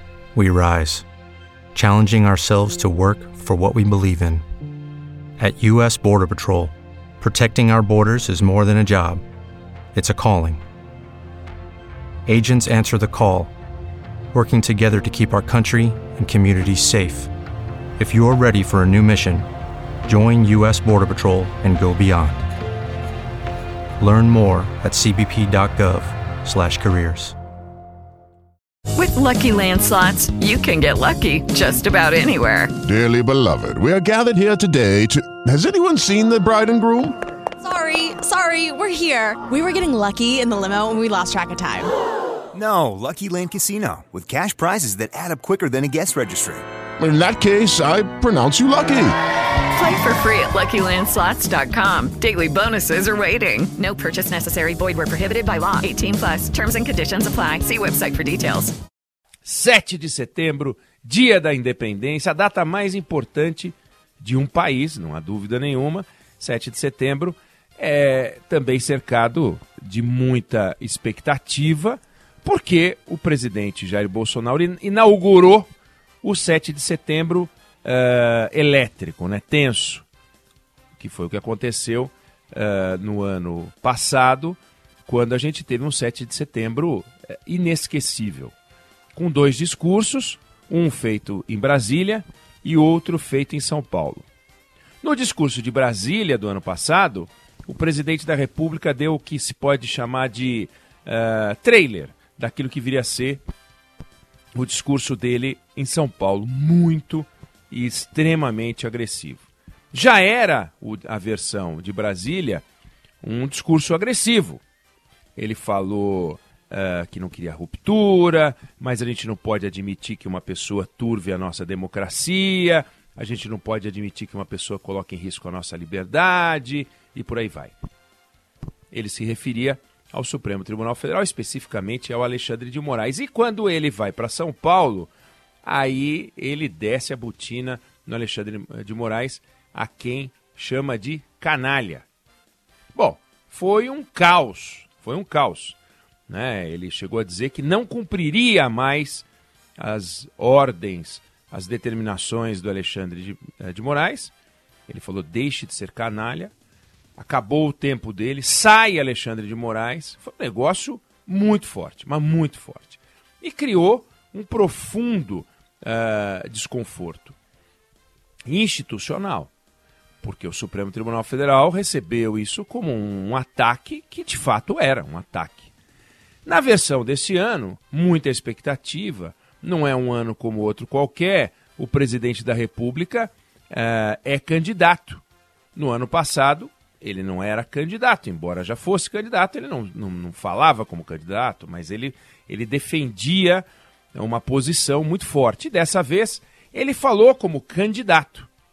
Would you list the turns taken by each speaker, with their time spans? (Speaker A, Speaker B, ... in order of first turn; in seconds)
Speaker A: 0.3-1.1, 1.7-4.4, 5.4-9.2, 9.9-10.6, 12.2-13.5, 14.3-17.3, 18.0-19.4, 20.1-22.5, 24.0-27.3
Speaker B: 28.9-32.7, 49.7-58.7
Speaker C: 32.8-37.1, 47.0-49.1
Speaker D: 37.6-41.9
Speaker E: 42.5-46.6
Speaker F: 59.4-75.7, 76.2-80.0, 80.9-88.5, 89.1-94.2, 95.0-103.4, 104.5-112.6, 113.2-114.6, 115.3-127.7, 128.9-135.1, 135.6-142.1, 142.9-145.8, 146.3-149.2, 149.8-154.3, 154.9-156.5, 157.2-167.3, 168.4-169.5, 170.2-175.7, 176.4-185.2, 185.7-198.5